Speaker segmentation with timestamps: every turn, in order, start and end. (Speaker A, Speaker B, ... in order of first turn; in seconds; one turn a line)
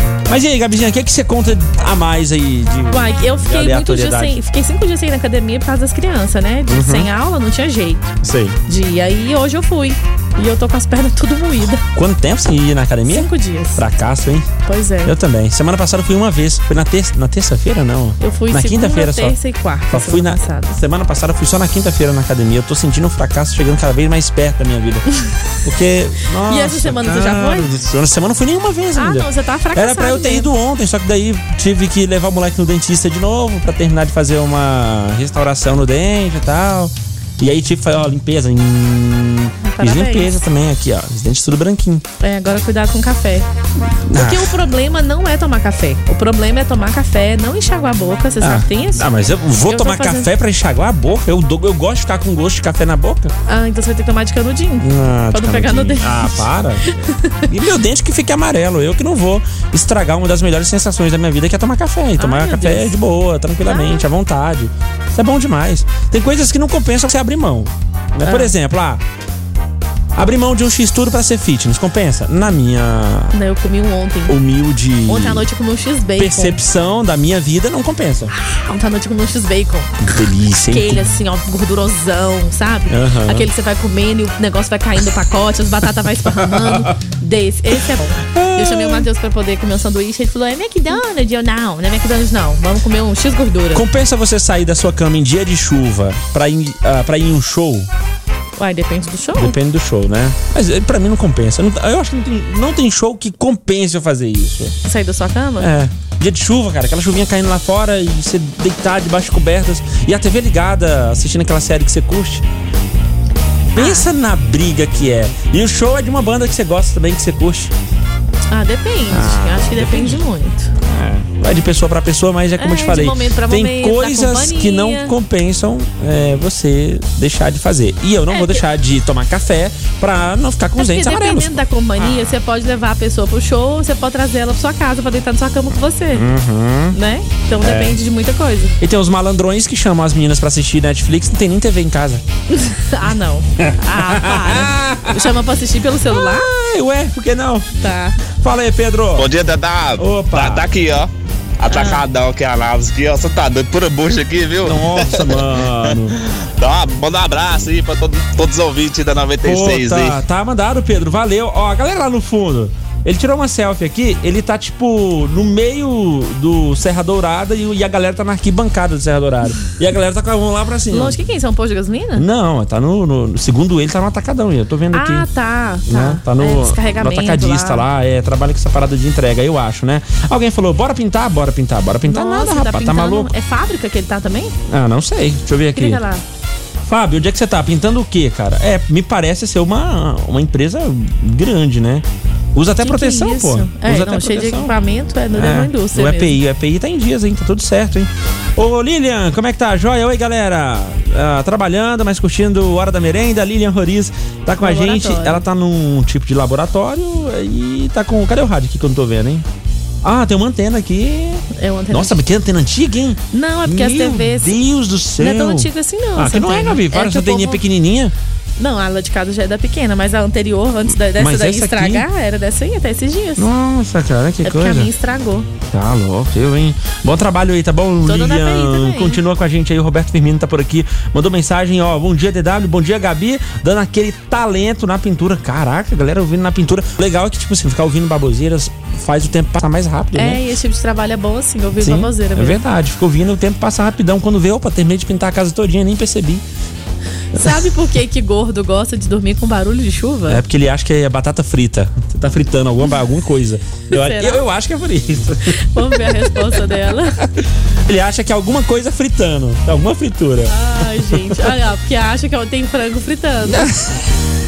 Speaker A: 0.3-4.4
Speaker B: 2.9-11.9
Speaker A: 6.7-7.1
Speaker A: 8.2-8.6
Speaker A: 11.9-14.5
Speaker B: 13.1-13.8
Speaker B: 14.7-15.1
Speaker A: 15.0-19.4
Speaker B: 18.2-20.8
Speaker A: 19.9-25.0
Speaker A: 25.6-42.0
Speaker B: 26.5-27.8
Speaker B: 29.0-30.5
Speaker B: 39.6-40.5
Speaker B: 42.2-43.5
Speaker A: 44.1-44.5
Speaker B: 44.1-49.1
Speaker A: 48.4-53.3
Speaker B: 49.7-50.3
Speaker B: 53.5-56.5
Speaker A: 54.8-69.0
Speaker B: 57.0-57.4
Speaker B: 62.2-63.0
Speaker B: 63.7-64.0
Speaker B: 68.2-68.5
Speaker A: 70.2-73.3
Speaker B: 73.3-74.4
Speaker A: 74.3-75.5
Speaker B: 75.1-76.6
Speaker A: 76.2-78.3
Speaker B: 78.5-80.0
Speaker A: 80.0-81.1
Speaker B: 80.7-93.8
Speaker A: 82.9-83.5
Speaker A: 86.2-87.0
Speaker A: 88.2-89.0
Speaker A: 93.7-97.9
Speaker B: 98.6-99.5
Speaker A: 99.4-104.8
Speaker B: 104.8-105.7
Speaker A: 105.6-112.4
Speaker A: 113.8-117.7
Speaker B: 113.8-114.1
Speaker B: 118.5-120.7
Speaker A: 119.1-120.2
Speaker A: 120.8-132.4
Speaker B: 122.6-125.1
Speaker B: 128.3-128.6
Speaker B: 130.8-136.3
Speaker A: 136.1-137.0
Speaker B: 136.9-138.7
Speaker A: 137.6-138.0
Speaker A: 138.8-142.2
Speaker B: 142.5-146.5
Speaker A: 143.6-145.3
Speaker A: 146.1-147.7
Speaker B: 147.8-148.2
Speaker A: 148.3-149.3
Speaker C: 149.2-149.9
Speaker A: 149.9-150.7
Speaker C: 150.5-151.0
Speaker B: 151.7-152.1
Speaker C: 151.7-155.0
Speaker A: 154.6-156.2
Speaker C: 156.6-160.1
Speaker A: 159.4-171.2
Speaker B: 170.9-172.2
Speaker A: 172.2-175.3
Speaker B: 174.9-177.9
Speaker A: 175.9-183.3
Speaker B: 182.1-184.6
Speaker A: 184.7-186.0
Speaker B: 185.8-186.2
Speaker A: 186.8-194.7
Speaker B: 192.8-196.4
Speaker A: 195.3-209.5
Speaker B: 204.6-205.4
Speaker A: 210.0-218.1
Speaker B: 211.5-212.2
Speaker B: 213.3-214.6
Speaker B: 215.2-217.6
Speaker B: 218.6-223.5
Speaker A: 221.1-222.1
Speaker A: 223.4-224.9
Speaker B: 224.4-225.5
Speaker A: 225.7-240.4
Speaker B: 228.0-229.2
Speaker B: 240.2-242.6
Speaker A: 241.8-246.4
Speaker B: 247.3-250.4
Speaker A: 250.3-256.5
Speaker B: 253.9-254.4
Speaker B: 255.7-257.2
Speaker A: 257.9-261.5
Speaker B: 260.5-263.7
Speaker A: 263.4-264.0